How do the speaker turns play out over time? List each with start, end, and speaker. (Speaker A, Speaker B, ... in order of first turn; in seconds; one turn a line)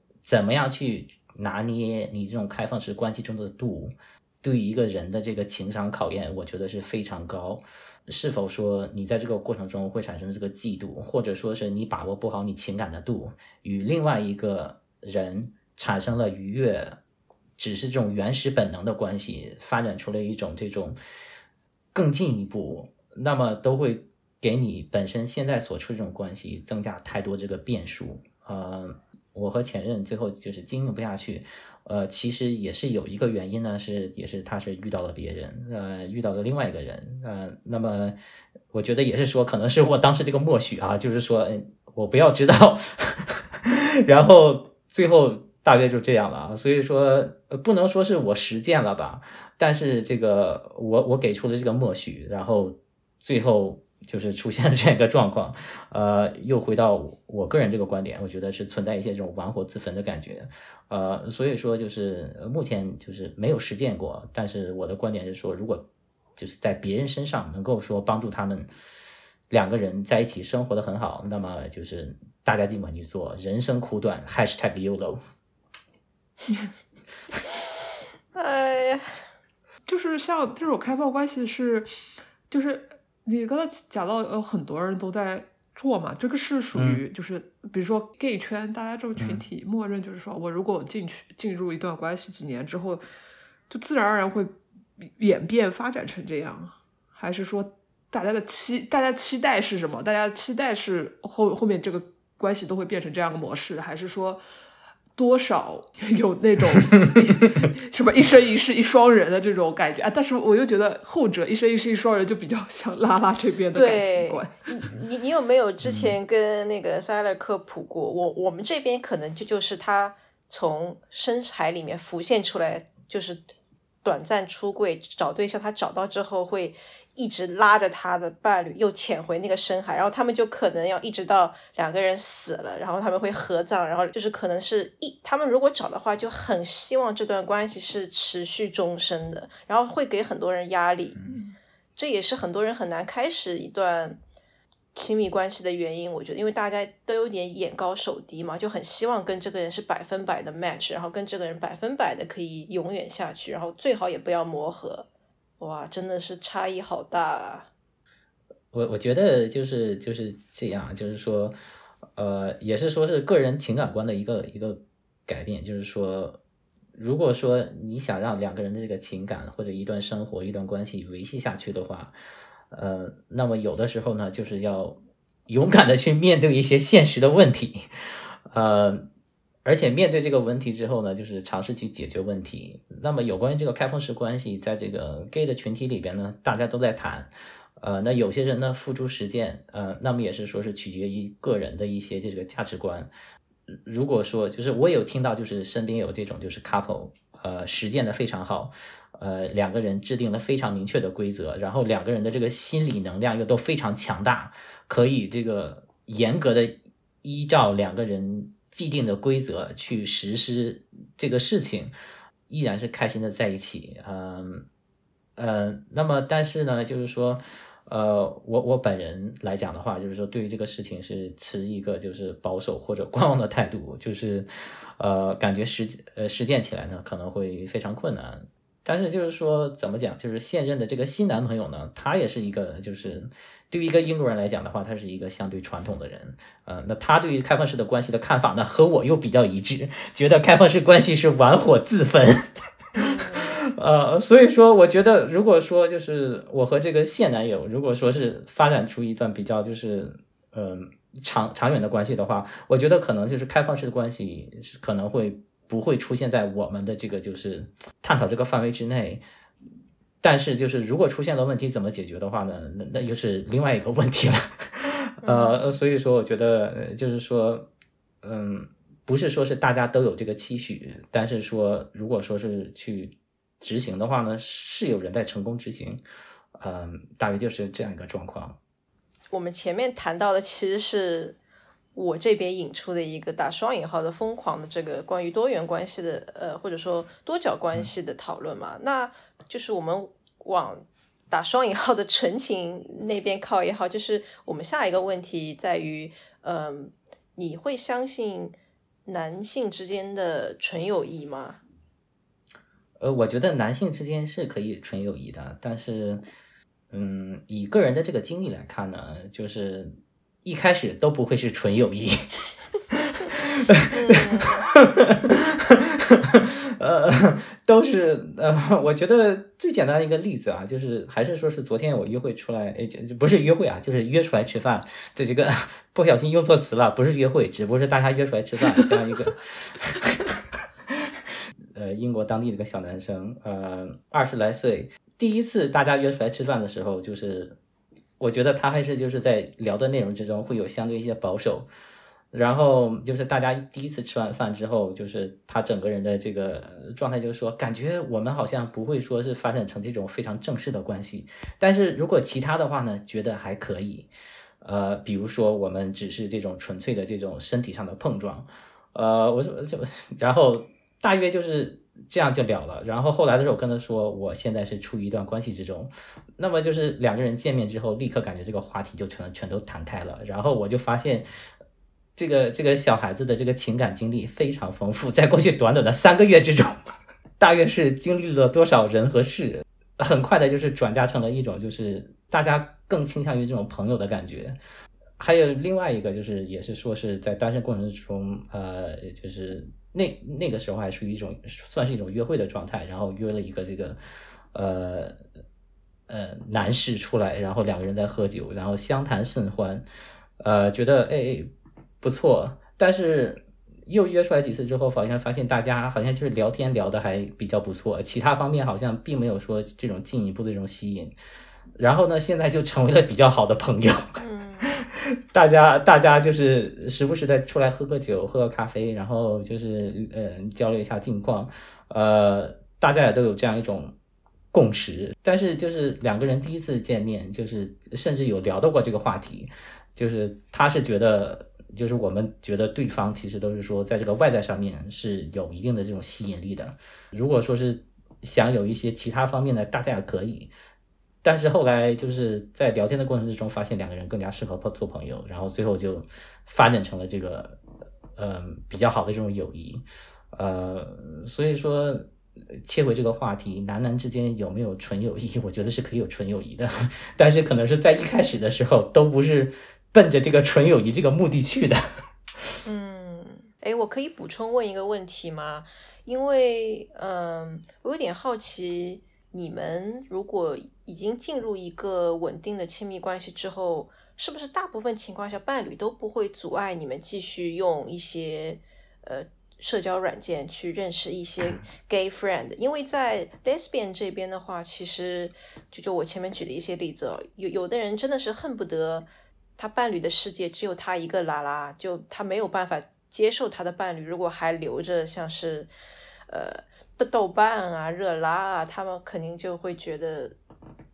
Speaker A: 0.2-17.0
Speaker A: 17.6-21.0
Speaker A: 21.9-38.2
Speaker A: 38.7-65.8
Speaker A: 66.4-68.7
Speaker A: 69.5-75.2
Speaker B: 78.3-79.1
Speaker C: 79.9-81.9
Speaker C: 82.5-93.0
Speaker A: 86.7-87.0
Speaker A: 89.2-89.5
Speaker C: 93.7-104.4
Speaker C: 105.2-114.5
Speaker B: 113.7-123.4
Speaker A: 115.8-116.1
Speaker B: 124.0-141.2
Speaker C: 141.3-141.6
Speaker B: 142.0-144.2
Speaker B: 144.9-155.1
Speaker B: 155.6-157.7
Speaker A: 158.7-161.5
Speaker A: 162.2-166.4
Speaker A: 166.9-172.2
Speaker A: 172.7-177.9
Speaker A: 178.5-179.1
Speaker A: 179.7-193.1
Speaker A: 193.8-211.9
Speaker A: 212.5-214.7
Speaker A: 215.4-259.2
Speaker B: 243.0-243.6
Speaker A: 260.2-267.7
Speaker B: 265.2-265.7
Speaker A: 268.2-276.0
Speaker A: 276.6-278.6
Speaker B: 279.3-281.4
Speaker B: 281.9-298.6
Speaker B: 299.1-301.6
Speaker A: 303.0-306.2
Speaker A: 306.9-312.2
Speaker A: 312.9-331.1
Speaker B: 313.9-314.6
Speaker A: 331.7-337.6
Speaker A: 338.2-341.7
Speaker A: 342.3-354.1
Speaker A: 354.6-371.2
Speaker A: 372.2-376.8
Speaker A: 377.4-384.6
Speaker A: 385.2-394.0
Speaker A: 394.5-395.2
Speaker A: 396.1-399.9
Speaker A: 400.4-401.5
Speaker A: 402.0-411.1
Speaker A: 411.8-414.1
Speaker B: 414.2-414.8
Speaker A: 414.9-423.9
Speaker A: 424.5-440.5
Speaker A: 441.2-447.6
Speaker A: 448.2-461.8
Speaker B: 462.6-489.1
Speaker B: 489.6-495.7
Speaker B: 496.3-500.4